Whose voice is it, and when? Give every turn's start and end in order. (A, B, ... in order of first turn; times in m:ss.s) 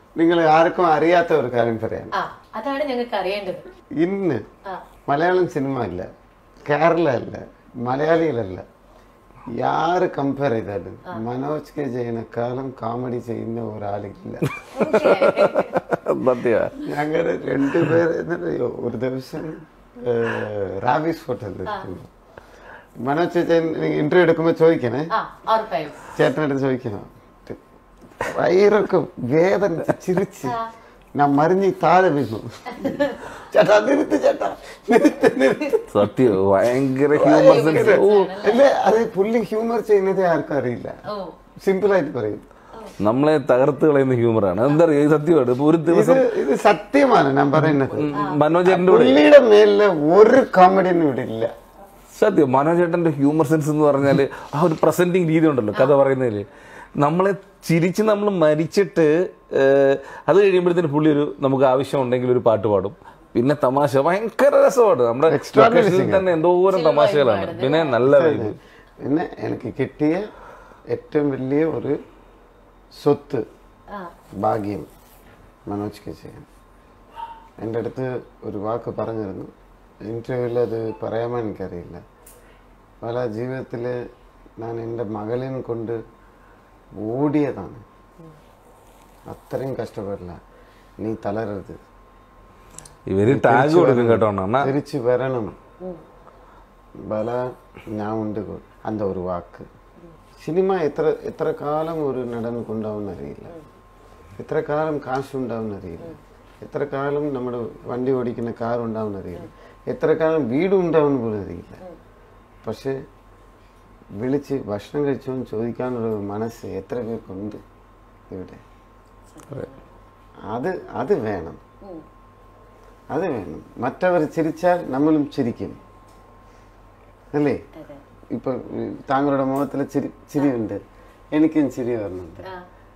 0:00.2-0:02.1 A
0:02.1-0:03.6 B
0:04.0-0:04.4 A
0:05.1-0:06.1 A
0:06.6-0:08.6 A
0:09.5-0:14.6 A
0:14.6-0:16.8 C
0:14.7-0:15.8 B
0:16.8-0:22.1 A
0:21.7-0:21.9 B
0:23.0-0:25.1 A
0:25.1-0:26.0 B
0:26.0-0:27.6 A
0:28.2-0:30.6 A
0:31.2-0:36.4 A
0:32.8-0:33.2 B
0:35.9-0:38.4 C
0:37.1-0:41.0 A
0:37.3-0:38.7 B
0:41.1-0:41.3 B
0:41.6-0:42.4 A
0:43.0-0:46.3 C
0:45.9-0:48.1 A
0:47.7-0:49.2 C
0:48.1-0:48.4 B
0:48.6-0:51.5 A
0:52.1-0:56.5 C
0:57.0-1:08.6 C
1:05.3-1:06.3 A
1:06.7-1:08.0 B
1:08.0-1:10.3 A
1:10.9-1:12.0 A
1:13.0-1:13.4 A
1:14.4-1:14.9 A
1:15.7-1:16.5 A
1:17.6-1:19.5 A
1:20.0-1:22.0 A
1:23.0-1:24.0 A
1:24.6-1:26.0 A
1:27.0-1:27.8 A
1:29.3-1:30.4 A
1:31.0-1:31.8 A
1:33.1-1:34.7 C
1:33.2-1:35.6 A
1:37.0-1:39.7 A
1:40.4-1:43.5 A
1:44.4-1:51.8 A
1:52.6-1:52.9 A
1:54.2-1:57.6 A
1:58.3-1:58.6 A
1:59.3-1:59.8 B
2:00.5-2:01.6 A
2:03.1-2:05.8 A
2:07.3-2:07.6 A
2:07.7-2:08.0 B
2:08.3-2:10.8 A
2:11.3-2:12.5 A